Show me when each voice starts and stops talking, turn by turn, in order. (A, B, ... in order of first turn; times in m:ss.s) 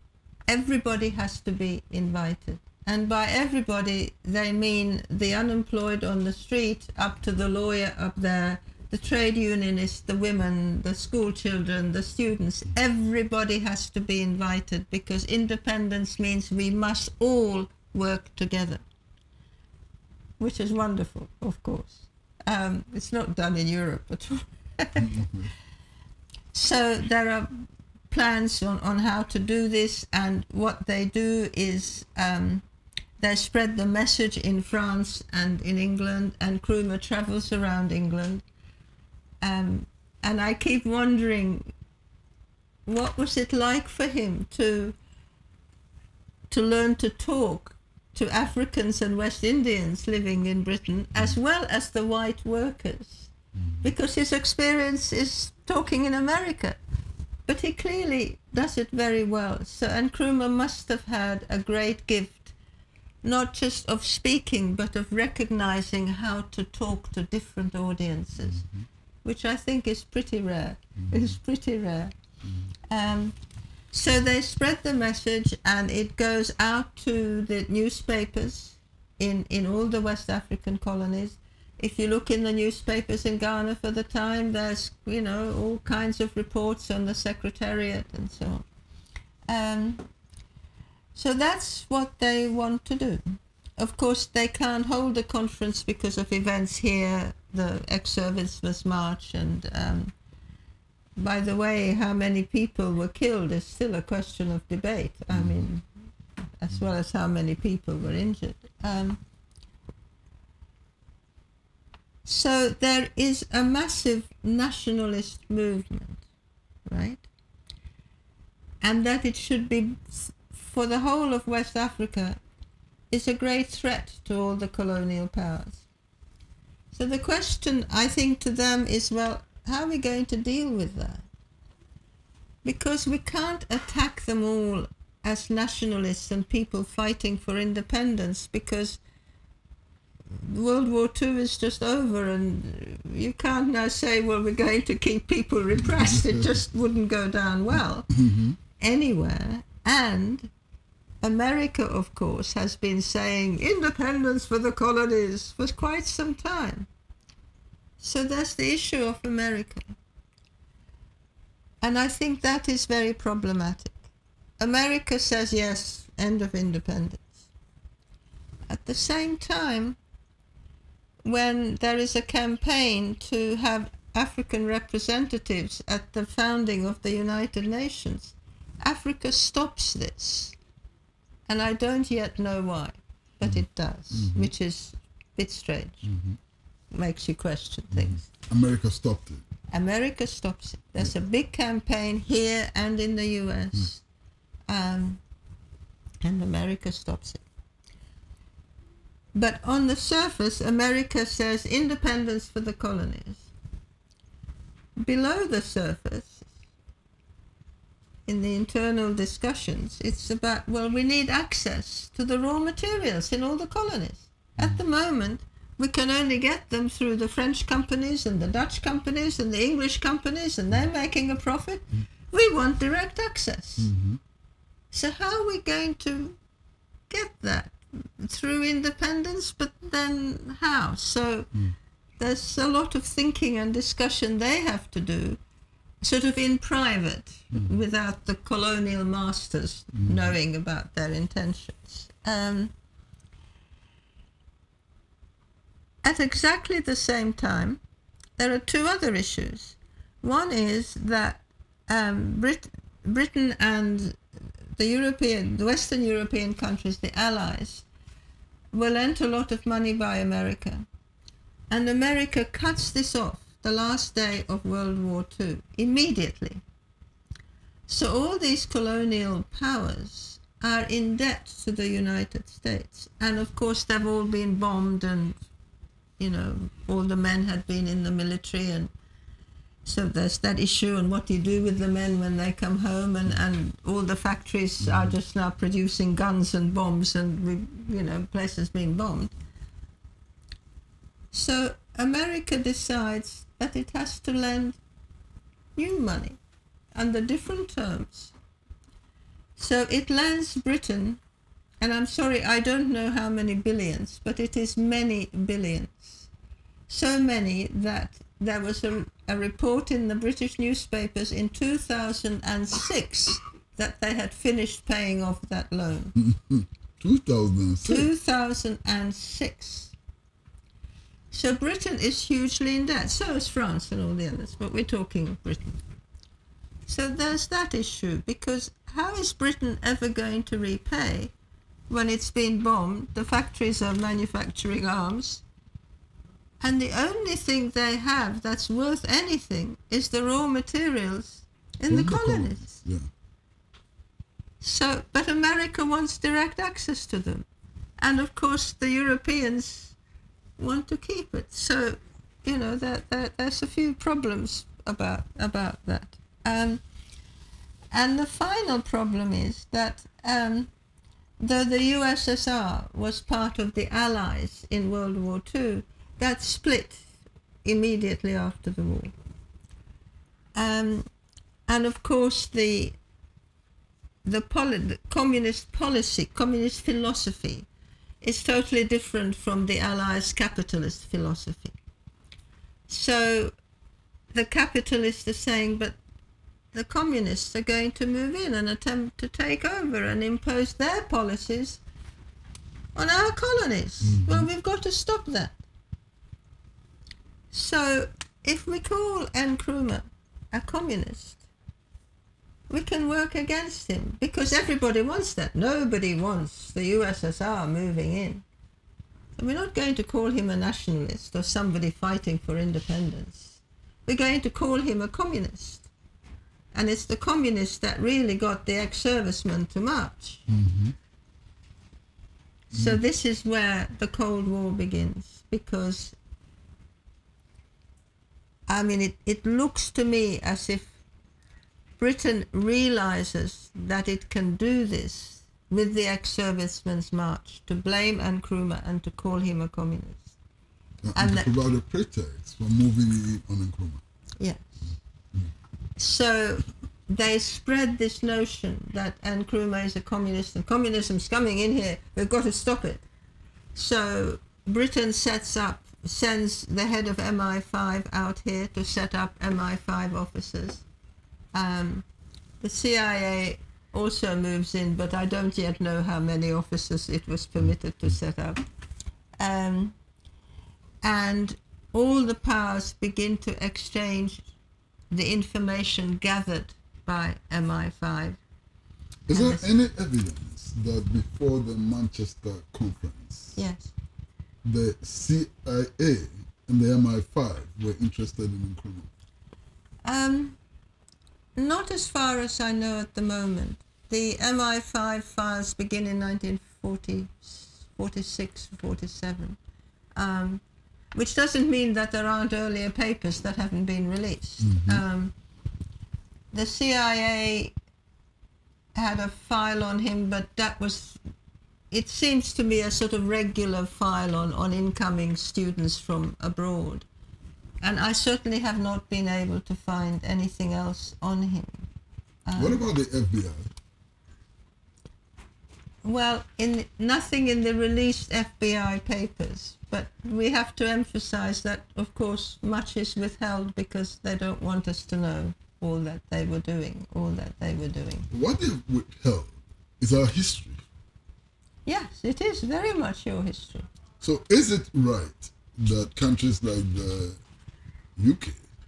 0:00.5-0:18.8 A
0:20.4-0:25.1 A
0:25.0-0:25.5 B
0:26.5-0:32.6 A
0:33.2-0:38.4 A
0:39.4-0:41.7 A
0:42.8-0:45.0 A
0:46.5-0:53.3 A
0:53.6-0:53.9 B
0:53.8-0:56.8 A
0:57.4-1:02.5 A
1:03.2-1:08.6 A
1:08.4-1:08.8 B
1:09.2-1:12.1 A
1:11.0-1:11.4 B
1:12.9-1:13.4 A
1:13.9-1:28.6 A
1:29.5-1:30.0 A
1:31.1-1:40.1 A
1:41.2-1:45.8 A
1:45.3-1:45.6 B
1:46.6-1:49.2 A
1:52.2-1:56.2 A
1:56.8-1:57.2 A
1:58.8-2:02.4 A
2:03.1-2:05.8 A
2:06.9-2:11.2 A
2:12.6-2:19.0 A
2:20.3-2:28.1 A
2:25.9-2:26.5 B
2:28.1-2:28.6 B
2:28.8-2:30.5 A
2:31.2-2:36.9 A
2:38.0-2:39.9 A
2:41.8-2:44.0 A
2:44.6-2:47.4 A
2:48.7-2:50.0 A
2:51.2-3:00.5 A
3:01.5-3:06.1 A
3:03.4-3:04.5 B
3:06.0-3:06.4 B
3:06.9-3:08.3 A
3:07.9-3:09.4 B
3:09.7-3:14.0 A
3:14.7-3:15.2 A
3:16.2-3:17.4 A
3:19.3-3:23.5 A
3:25.0-3:26.5 A
3:28.2-3:43.9 A
3:43.8-3:44.2 B
3:44.9-3:46.4 A
3:47.1-3:51.5 A
3:52.2-3:55.4 A
3:56.0-4:02.7 A
3:57.5-3:57.8 B
4:00.0-4:00.3 B
4:06.0-4:07.8 A
4:08.4-4:14.2 A
4:14.8-4:17.8 A
4:18.7-4:20.8 A
4:21.7-4:26.6 A
4:27.9-4:35.4 A
4:36.2-4:38.9 A
4:39.8-4:49.3 A
4:44.8-4:45.2 B
4:51.3-4:54.8 A
4:55.8-4:56.4 A
4:56.9-4:58.3 A
4:59.6-5:01.2 A
5:01.8-5:06.3 A
5:06.9-5:16.1 A
5:16.1-5:18.1 B
5:17.8-5:19.9 A
5:21.3-5:25.8 A
5:26.9-5:31.3 A
5:31.9-5:35.4 A
5:36.6-5:42.8 A
5:41.9-5:43.1 B
5:44.6-5:47.4 A
5:48.0-5:50.0 A
5:50.6-5:56.8 A
5:57.9-6:00.7 A
6:01.4-6:07.0 A
6:07.6-6:09.1 A
6:10.5-6:11.1 A
6:11.7-6:13.0 A
6:14.2-6:17.6 A
6:18.2-6:21.7 A
6:22.9-6:23.5 A
6:24.3-6:26.0 A
6:26.7-6:31.8 A
6:32.9-6:35.6 A
6:34.0-6:34.5 B
6:37.5-6:41.4 A
6:42.7-6:48.4 A
6:49.4-6:55.8 A
6:56.7-7:00.4 A
7:00.5-7:00.9 B
7:02.7-7:03.0 B
7:02.7-7:06.1 A
7:08.7-7:10.9 A
7:12.0-7:20.3 A
7:21.0-7:24.0 B
7:21.2-7:21.5 A
7:24.4-7:24.7 A
7:26.0-7:33.0 A
7:33.7-7:40.8 A
7:41.5-7:42.0 A
7:42.6-7:48.6 A
7:49.4-7:49.9 A
7:51.0-7:54.4 A
7:55.1-7:58.4 A
7:59.3-8:03.6 B
7:59.3-7:59.7 A
8:03.6-8:03.9 A
8:04.6-8:09.1 B
8:10.0-8:10.6 A
8:11.6-8:19.6 A
8:20.2-8:20.6 A
8:21.1-8:25.3 A
8:24.6-8:25.0 B
8:26.5-8:27.7 A
8:28.9-8:31.2 A
8:31.9-8:37.1 A
8:37.8-8:41.8 A
8:42.4-8:42.8 A
8:42.6-8:43.7 B
8:46.0-8:58.3 A
8:58.3-9:00.8 B
9:01.8-9:03.9 A
9:04.2-9:07.4 B
9:08.2-9:08.6 B